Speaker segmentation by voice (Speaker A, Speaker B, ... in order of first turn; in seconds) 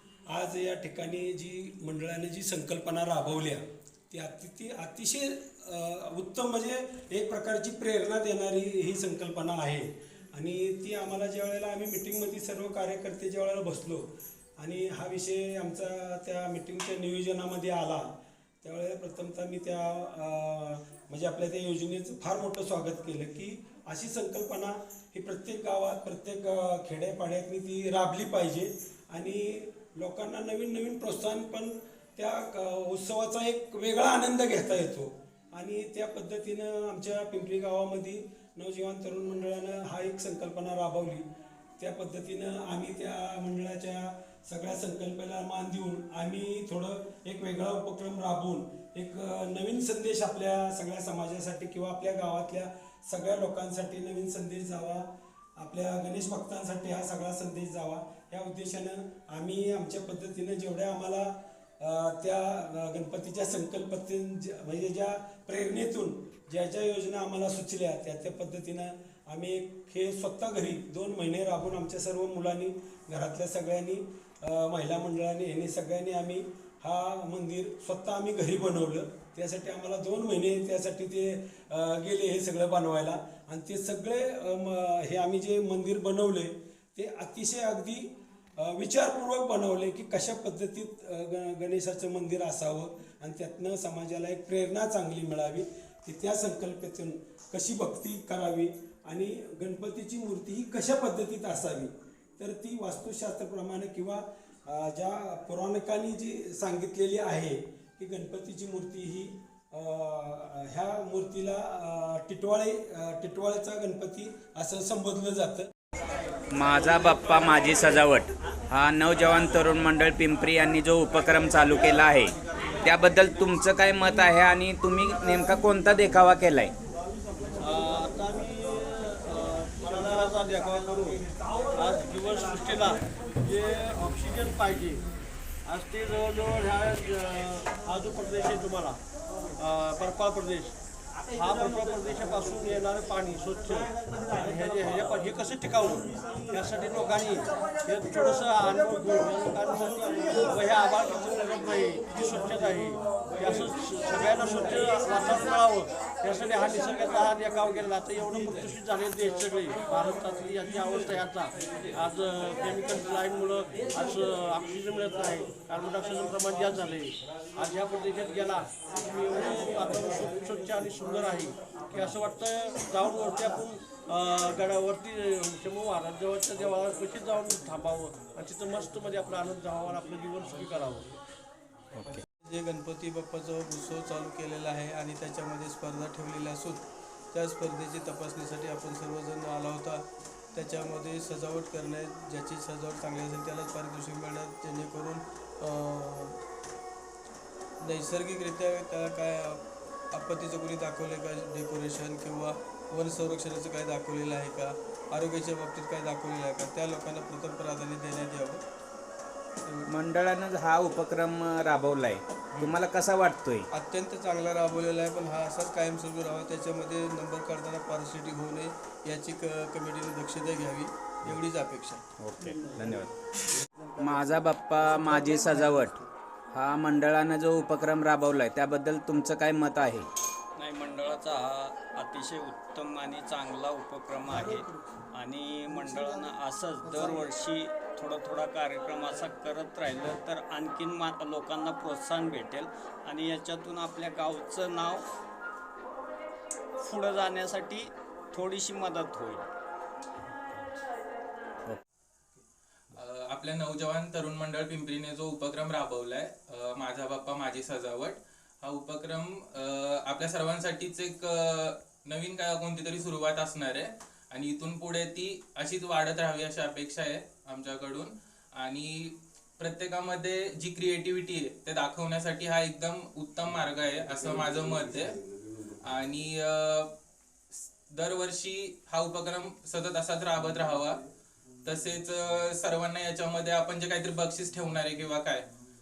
Speaker A: 0.3-41.3, 41.8-115.7
Speaker B: 116.5-126.7, 181.9-182.2, 209.9-213.6, 222.2-223.1, 224.0-226.0, 226.5-230.1
Speaker C: 127.6-131.2, 131.8-135.0, 135.7-139.0, 139.6-140.7, 141.3-181.1
Speaker D: 182.4-190.0, 190.5-196.4, 197.8-199.6, 200.1-208.6, 213.7-222.0
Speaker E: 223.8-224.4, 230.6-245.0, 246.8-249.5
Speaker F: 252.9-275.2, 275.8-276.9, 277.5-281.0, 281.6-285.4